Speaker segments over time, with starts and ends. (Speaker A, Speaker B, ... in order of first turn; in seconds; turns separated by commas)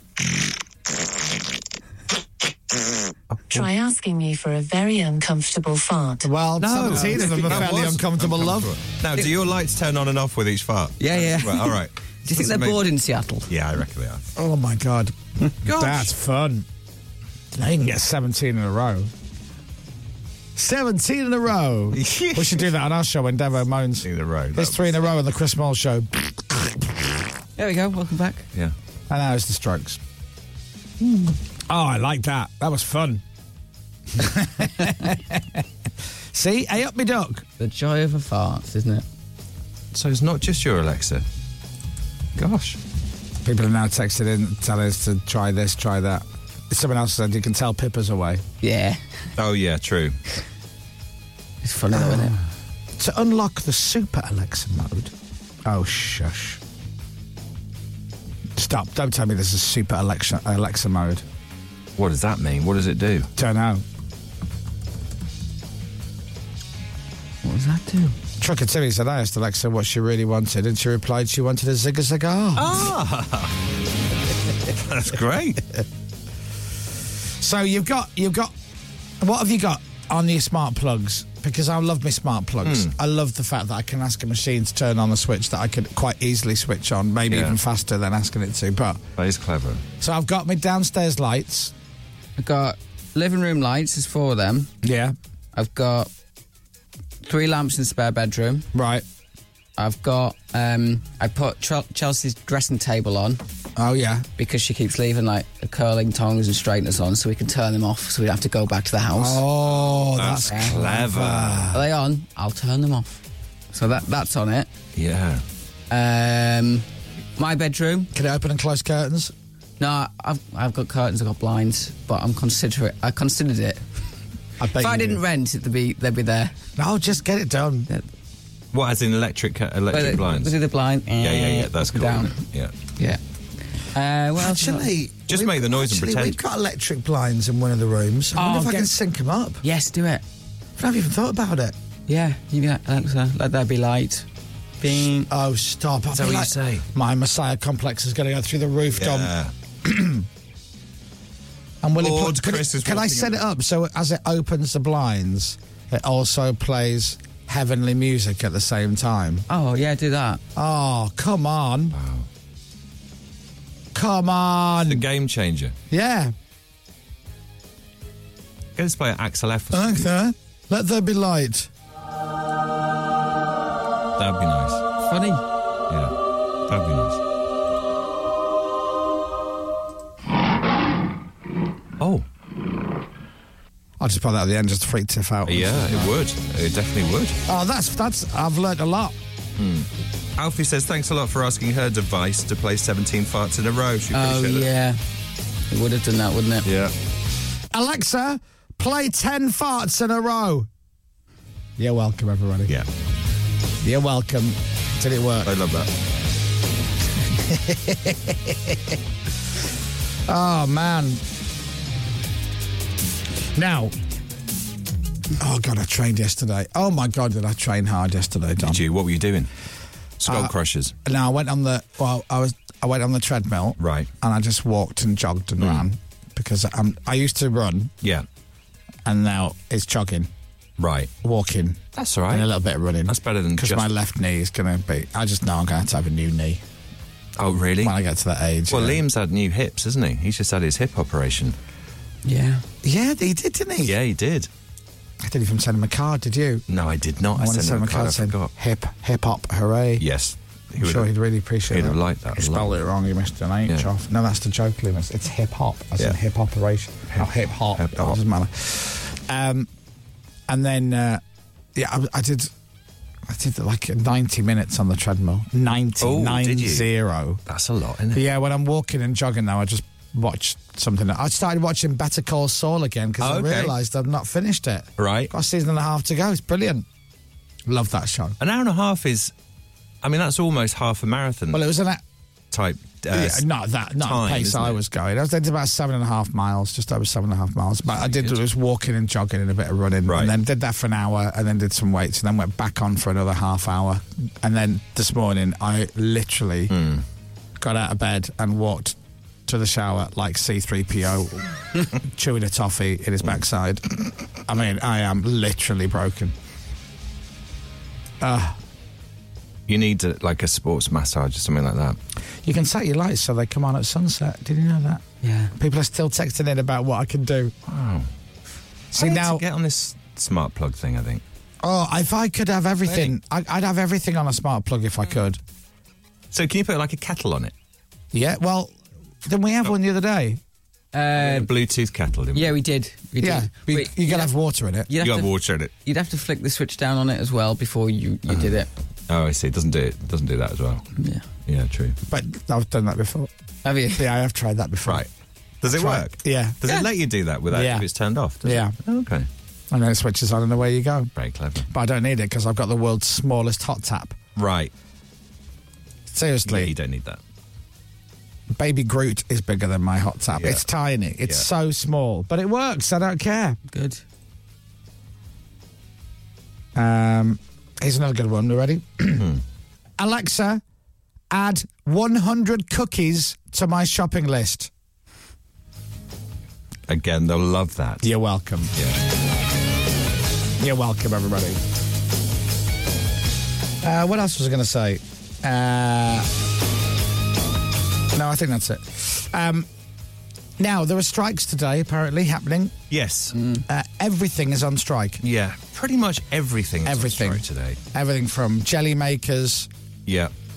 Speaker A: 3.3-3.7, Speaker B: 3.5-6.3, Speaker C: 6.2-8.7, Speaker A: 6.6-12.9, Speaker D: 11.0-13.5, Speaker A: 13.5-14.3, Speaker C: 14.4-16.7, Speaker A: 15.6-16.1, Speaker C: 17.5-19.1, Speaker C: 20.6-27.1, Speaker A: 21.9-22.6, Speaker A: 24.0-24.9, Speaker D: 27.6-28.4, Speaker C: 29.1-30.0, Speaker A: 31.0-31.3, Speaker C: 31.7-33.2, Speaker C: 34.1-35.6, Speaker C: 36.3-37.4, Speaker D: 37.6-39.0, Speaker A: 39.9-41.2, Speaker A: 42.4-42.8, Speaker C: 43.4-48.4, Speaker D: 48.6-49.2, Speaker A: 49.4-50.2, Speaker D: 51.6-52.4, Speaker C: 51.9-52.3, Speaker C: 53.0-55.1, Speaker C: 55.6-56.6, Speaker C: 58.5-61.2, Speaker A: 62.0-63.3, Speaker C: 63.4-63.8, Speaker D: 67.4-68.2, Speaker C: 68.4-72.8, Speaker A: 72.5-73.5, Speaker A: 74.8-75.6, Speaker C: 77.4-78.5, Speaker C: 79.2-89.0, Speaker A: 82.6-82.9, Speaker A: 87.3-87.6, Speaker A: 89.2-89.8, Speaker C: 90.0-91.7, Speaker D: 92.4-94.7, Speaker C: 94.8-95.2, Speaker D: 95.5-96.1, Speaker D: 97.2-98.7, Speaker C: 98.7-99.0, Speaker D: 99.8-103.4, Speaker C: 103.8-104.3, Speaker D: 104.4-109.4, Speaker C: 109.1-111.8, Speaker A: 110.2-111.8, Speaker D: 110.5-110.7, Speaker D: 111.7-113.2, Speaker D: 113.7-114.7, Speaker A: 115.0-115.4, Speaker D: 115.9-116.9, Speaker D: 117.4-118.1, Speaker C: 118.1-119.3, Speaker D: 119.8-123.8, Speaker C: 124.6-125.2, Speaker D: 124.8-126.5, Speaker C: 126.8-127.9, Speaker A: 128.7-130.5, Speaker D: 129.9-132.4, Speaker A: 131.2-132.7, Speaker D: 133.9-134.9, Speaker C: 134.4-139.6, Speaker A: 135.3-136.4, Speaker D: 138.4-138.9, Speaker D: 139.6-140.2, Speaker C: 140.8-141.8, Speaker D: 142.1-144.2, Speaker D: 144.8-145.3, Speaker C: 145.3-150.3, Speaker A: 146.1-146.9, Speaker A: 148.9-149.5, Speaker C: 151.8-159.4, Speaker A: 152.0-153.4, Speaker D: 159.5-160.4, Speaker C: 160.5-161.9, Speaker A: 161.9-162.2, Speaker C: 163.9-165.0, Speaker A: 164.9-165.8, Speaker C: 165.9-166.3, Speaker A: 168.8-170.1, Speaker C: 169.7-171.7, Speaker A: 174.2-174.8, Speaker D: 175.0-175.4, Speaker A: 176.7-177.2, Speaker A: 182.0-182.2, Speaker C: 184.0-186.1, Speaker A: 185.4-187.4, Speaker C: 187.4-189.1, Speaker A: 189.6-194.7, Speaker D: 194.1-195.0, Speaker D: 195.7-196.7, Speaker A: 196.6-196.9, Speaker C: 197.7-200.7, Speaker C: 201.8-202.7, Speaker C: 203.8-205.6, Speaker A: 205.4-205.9, Speaker C: 207.4-208.9, Speaker C: 210.3-211.2, Speaker C: 213.6-213.9, Speaker C: 215.4-218.8, Speaker A: 218.6-219.5, Speaker A: 220.2-220.9, Speaker C: 220.2-220.5, Speaker C: 221.0-227.9, Speaker A: 223.8-224.1, Speaker A: 225.6-225.8, Speaker C: 229.0-230.3, Speaker A: 230.8-231.1, Speaker C: 231.2-236.6, Speaker A: 231.9-232.5, Speaker A: 233.1-233.9, Speaker A: 237.4-237.9, Speaker C: 237.8-239.0, Speaker A: 238.7-241.6, Speaker D: 242.2-242.6, Speaker C: 242.8-244.0, Speaker A: 243.8-244.5, Speaker C: 245.2-246.6, Speaker A: 246.7-248.5, Speaker C: 247.3-250.0, Speaker A: 250.0-251.1, Speaker C: 250.8-259.7, Speaker A: 251.7-252.7, Speaker A: 257.1-258.2, Speaker C: 260.5-261.2, Speaker C: 261.8-262.5, Speaker C: 263.3-267.4, Speaker A: 266.0-266.9, Speaker A: 267.5-268.2, Speaker C: 268.1-276.9, Speaker A: 273.2-273.8, Speaker A: 275.0-275.3, Speaker C: 277.7-278.4, Speaker A: 278.4-279.3, Speaker A: 280.0-281.6, Speaker C: 281.5-282.0, Speaker A: 282.5-283.4, Speaker C: 283.1-296.8, Speaker A: 284.0-284.8, Speaker A: 288.0-288.4, Speaker A: 290.1-290.3, Speaker A: 296.7-297.0, Speaker C: 297.6-299.0, Speaker C: 299.5-306.3, Speaker C: 308.2-308.6, Speaker A: 309.7-312.0, Speaker C: 312.4-315.0, Speaker D: 315.2-315.5, Speaker C: 315.6-317.5, Speaker A: 317.7-318.1, Speaker C: 318.9-319.4, Speaker A: 318.9-321.2, Speaker C: 321.6-325.4, Speaker A: 322.9-323.1, Speaker A: 326.3-327.5, Speaker C: 328.1-330.4, Speaker D: 330.9-331.5, Speaker A: 331.1-332.5, Speaker D: 332.3-334.3, Speaker C: 333.2-334.9, Speaker D: 334.9-338.7, Speaker A: 335.0-335.7, Speaker A: 338.3-338.5, Speaker A: 339.1-340.9, Speaker D: 341.0-341.2, Speaker A: 341.5-342.0, Speaker C: 342.1-343.3, Speaker D: 343.6-344.1, Speaker C: 343.9-345.1, Speaker A: 345.6-349.3, Speaker C: 345.7-346.6, Speaker C: 347.5-347.8, Speaker C: 348.4-348.8, Speaker C: 349.7-351.1, Speaker A: 351.2-351.7, Speaker C: 351.7-354.2, Speaker A: 354.4-354.7, Speaker C: 356.1-356.7, Speaker A: 356.5-357.2, Speaker C: 358.5-363.6, Speaker A: 360.3-360.6, Speaker D: 363.7-364.0, Speaker C: 366.8-369.3, Speaker C: 370.0-370.6, Speaker C: 371.3-374.7, Speaker A: 376.9-378.1, Speaker C: 378.0-378.7, Speaker C: 380.6-381.6, Speaker C: 383.8-386.3, Speaker C: 388.1-389.7, Speaker C: 390.6-392.8, Speaker A: 392.9-393.4, Speaker D: 393.4-393.6, Speaker C: 393.7-395.2, Speaker A: 395.2-397.8, Speaker C: 396.8-399.7